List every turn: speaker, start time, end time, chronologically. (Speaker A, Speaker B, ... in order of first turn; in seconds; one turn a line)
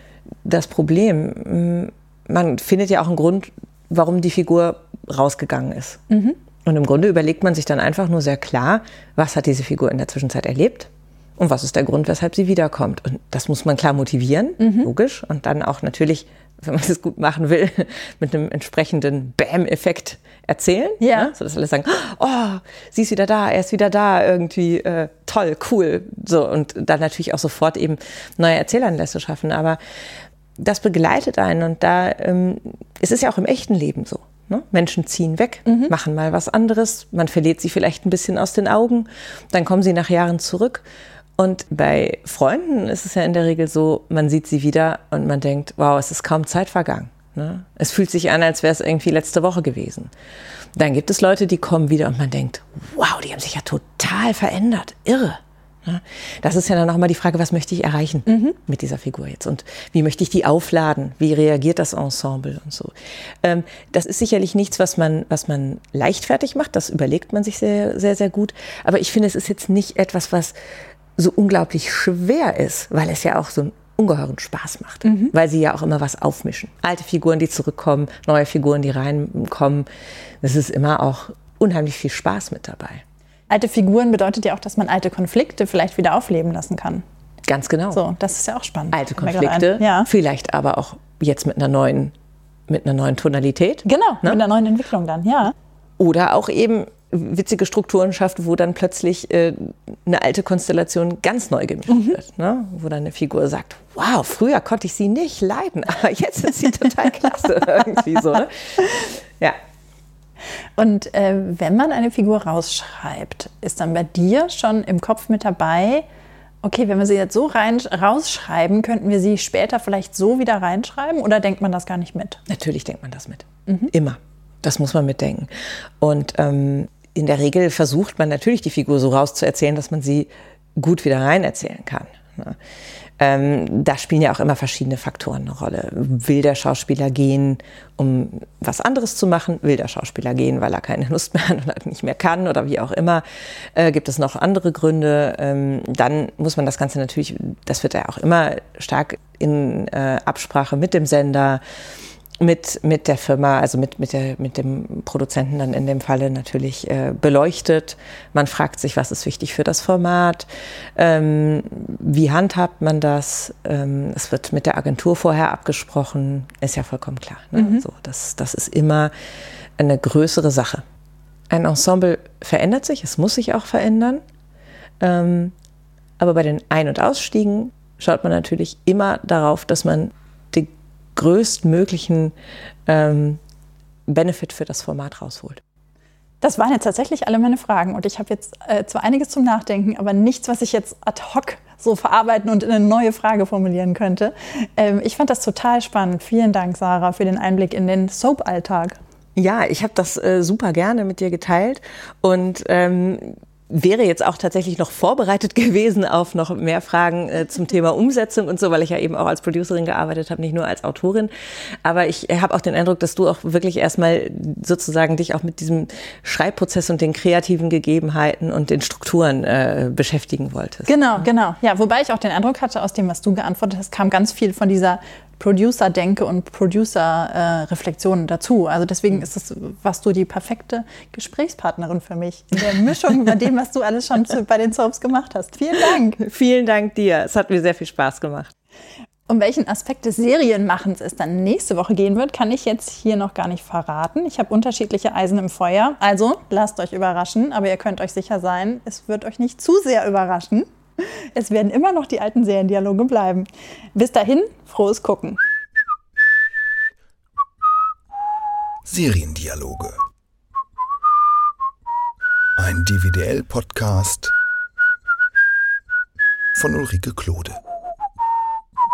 Speaker A: 0.4-6.0
Speaker B: 6.1-6.4
Speaker A: 6.7-29.8
Speaker B: 14.6-14.9
Speaker B: 21.0-21.3
Speaker A: 30.6-40.9
Speaker B: 35.7-35.9
Speaker A: 41.4-50.1
Speaker A: 50.8-70.5
Speaker B: 58.3-58.5
Speaker A: 71.2-79.9
Speaker B: 75.0-75.3
Speaker A: 80.4-83.0
Speaker B: 83.5-87.0
Speaker A: 87.5-88.0
Speaker B: 87.9-90.1
Speaker A: 88.9-92.1
Speaker A: 92.7-94.4
Speaker B: 93.8-95.5
Speaker A: 96.0-109.6
Speaker B: 101.9-102.2
Speaker B: 110.8-116.0
Speaker B: 116.6-122.4
Speaker A: 122.5-125.5
Speaker A: 126.0-132.6
Speaker A: 133.2-151.6
Speaker A: 152.4-169.1
Speaker B: 167.6-167.8
Speaker A: 169.8-170.8
Speaker A: 171.5-174.2
Speaker A: 175.0-175.6
Speaker A: 176.2-182.3
Speaker A: 182.9-183.4
Speaker A: 184.1-185.6
Speaker B: 186.4-199.0
Speaker A: 199.4-211.3
Speaker A: 211.8-221.3
Speaker B: 220.9-236.2
Speaker A: 236.2-238.5
Speaker B: 239.3-255.4
Speaker C: 258.9-260.0
Speaker C: 262.6-264.3
Speaker C: 266.6-267.6